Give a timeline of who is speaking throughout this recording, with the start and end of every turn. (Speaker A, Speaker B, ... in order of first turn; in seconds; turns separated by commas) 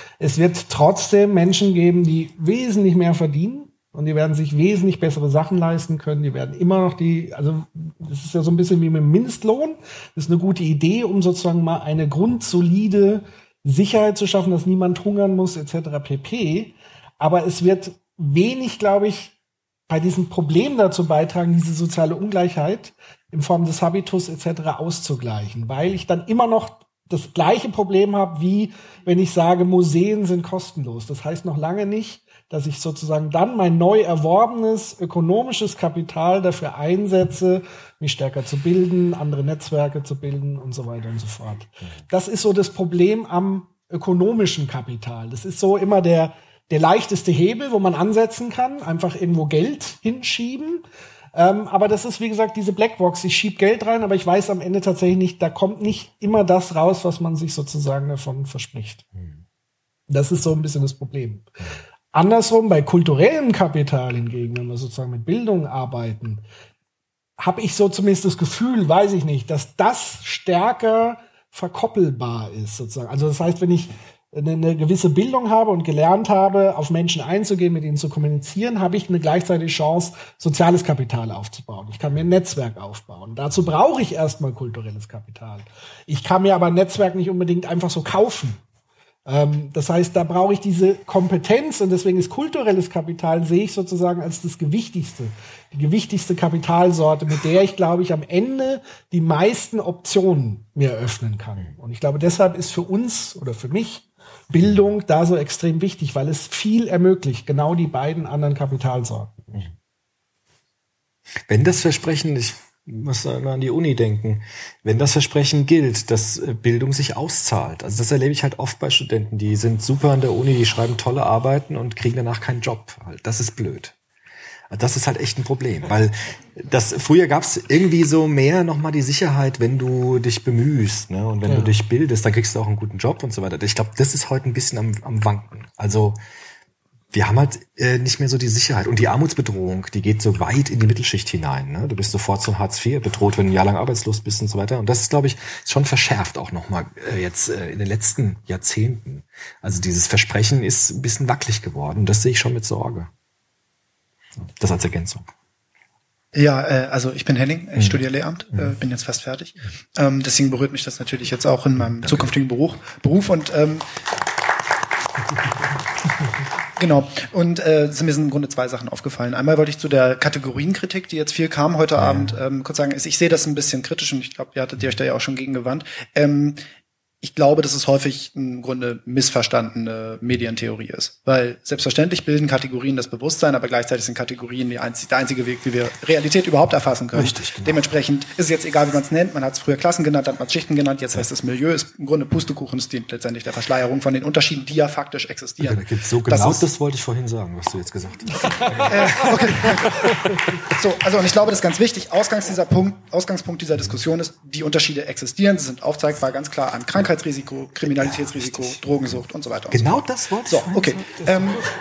Speaker A: 0.2-19.3, Speaker A: 19.9-59.0, Speaker A: 60.1-61.5, Speaker A: 62.1-66.4, Speaker A: 67.4-88.6, Speaker A: 89.2-109.5, Speaker B: 111.5-123.9, Speaker B: 124.7-136.2, Speaker A: 131.4-131.7, Speaker B: 137.1-153.1, Speaker B: 154.6-155.2, Speaker C: 156.3-163.9, Speaker B: 162.0-162.3, Speaker C: 166.8-176.6, Speaker B: 172.0-172.4, Speaker C: 177.2-196.7, Speaker B: 187.1-187.8, Speaker B: 195.6-200.2, Speaker C: 198.9-200.1, Speaker C: 200.7-211.6, Speaker B: 208.0-209.2, Speaker B: 209.7-211.4